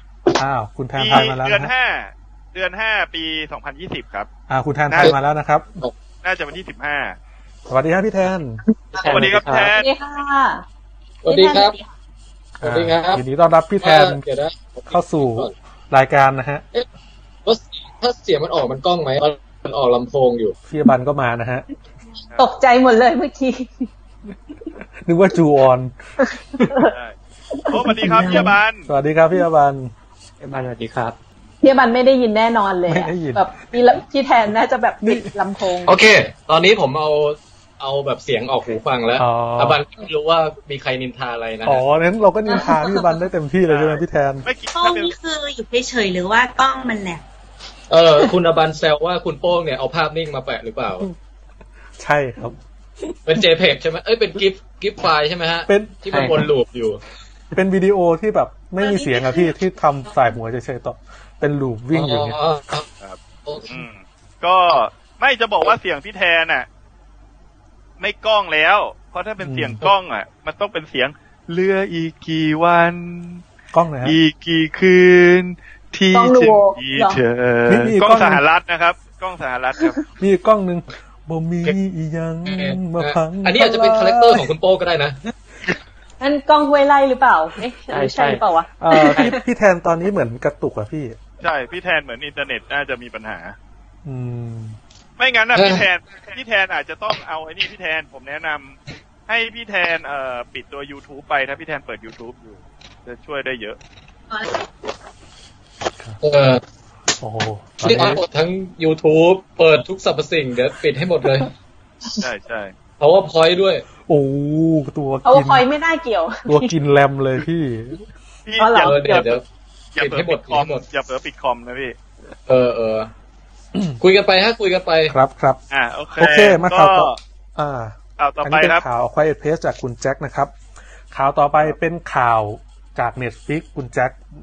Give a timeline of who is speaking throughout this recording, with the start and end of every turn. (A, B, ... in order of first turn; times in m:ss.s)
0:00.3-0:01.7 A
0:01.0-0:04.3 B
0:04.5-0:05.8 A
0:06.2-0:07.2 B
0:07.7-0:08.6 A
0:08.9-0:09.7 C
0:09.0-0:09.9 B
0:09.7-0:10.6 D
0:11.2-0:11.8 E
0:11.3-0:11.8 D
0:12.6-0:14.2 A
0:12.6-0:13.2 E
0:13.8-0:15.5 E
0:14.9-0:16.6 A
0:17.4-0:20.5 E
0:20.7-0:21.7 A
0:22.4-0:23.9 D
0:25.0-0:25.9 A
0:26.6-0:26.9 D
0:26.8-0:27.1 B
0:27.5-0:28.5 D
0:27.7-0:28.9 B
0:28.1-0:29.9 A
0:30.4-0:31.2 C
0:31.6-0:35.9 D
0:32.9-0:33.5 A
0:35.0-0:35.3 A
0:35.8-0:41.8 E
0:39.2-0:39.8 A
0:41.6-0:44.5 A
0:43.7-0:45.1 B
0:44.7-0:47.2 F
0:47.9-0:51.0 E
0:52.0-0:52.6 A
0:53.2-0:57.0 E
0:55.7-0:56.4 A
0:56.1-0:56.4 C
0:57.5-1:02.4 A
1:01.9-1:02.8 E
1:03.4-1:03.8 E
1:03.7-1:06.6 B
1:08.0-1:13.4 B
1:09.4-1:09.8 A
1:13.7-1:14.2 A
1:14.0-1:20.0 B
1:16.1-1:17.2 D
1:17.7-1:18.4 A
1:20.2-1:24.5 A
1:22.4-1:25.2 E
1:26.2-1:29.4 D
1:27.9-1:28.4 C
1:28.8-1:31.2 A
1:31.4-1:33.6 B
1:34.0-1:34.8 A
1:35.2-1:43.8 B
1:35.5-1:35.8 E
1:46.2-1:46.6 E
1:47.2-1:48.2 A
1:47.8-1:51.5 E
1:52.2-1:52.7 B
1:53.0-1:53.8 E
1:54.1-1:55.6 A
1:55.2-1:56.7 D
1:56.5-1:58.0 A
1:58.5-1:59.3 B
1:58.6-1:59.3 D
1:58.8-1:59.4 E
1:59.9-2:01.9 B
2:00.0-2:00.8 E
2:02.5-2:03.1 E
2:03.7-2:04.0 A
2:04.0-2:05.1 E
2:05.1-2:05.6 A
2:05.7-2:07.2 B
2:06.2-2:10.5 A
2:08.2-2:08.8 B
2:11.1-2:14.2 A